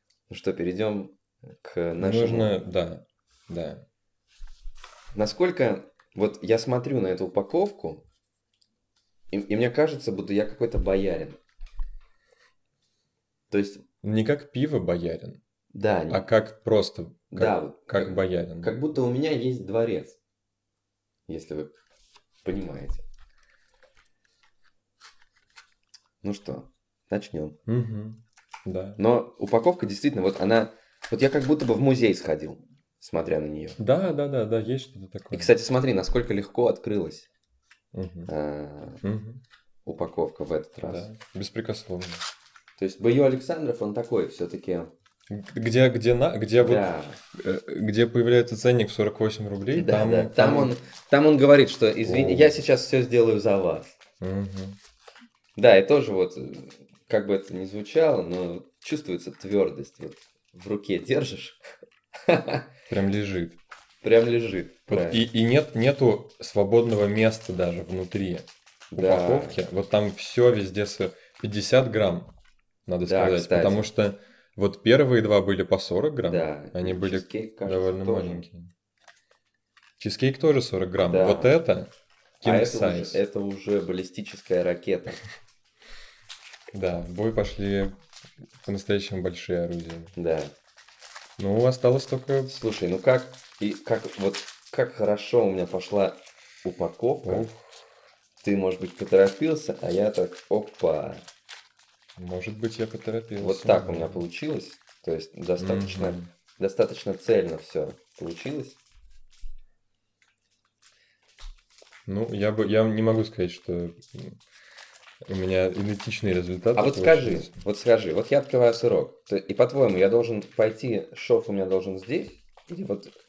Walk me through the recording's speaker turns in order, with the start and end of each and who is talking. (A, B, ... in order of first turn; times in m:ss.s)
0:00.3-0:02.6 A
0:02.0-0:03.8 B
0:05.2-0:08.0 A
0:09.3-0:11.4 A
0:13.5-0:13.8 A
0:14.0-0:15.4 B
0:15.7-0:16.3 A
0:16.1-0:18.8 B
0:17.3-0:20.2 A
0:21.3-0:21.8 A
0:22.4-0:23.0 A
0:26.2-0:27.6 A
0:27.7-0:29.0 B
0:29.0-0:33.8 A
0:33.8-0:35.5 B
0:35.3-0:37.3 A
0:37.9-0:38.3 B
0:38.3-0:39.0 A
0:39.0-0:39.4 B
0:39.8-0:41.1 A
0:40.9-0:42.2 B
0:42.8-0:44.9 A
0:45.3-0:50.8 B
0:46.6-0:47.2 A
0:49.7-0:54.0 A
0:52.0-0:52.6 B
0:54.2-0:54.8 B
0:55.6-1:01.6 A
1:02.2-1:02.7 A
1:02.9-1:03.6 B
1:04.0-1:05.3 A
1:04.9-1:12.3 B
1:08.9-1:09.6 A
1:12.9-1:18.7 B
1:13.0-1:13.9 A
1:16.3-1:18.4 A
1:20.0-1:23.2 B
1:21.0-1:21.5 A
1:22.4-1:25.2 A
1:26.7-1:28.0 B
1:28.6-1:30.1 B
1:30.2-1:30.5 A
1:31.4-1:32.6 B
1:32.5-1:37.5 A
1:37.2-1:37.7 B
1:38.4-1:41.3 A
1:42.2-1:44.2 B
1:43.4-1:48.8 A
1:45.6-1:46.3 B
1:52.1-1:54.4 B
1:55.2-1:57.6 B
1:56.8-2:03.1 A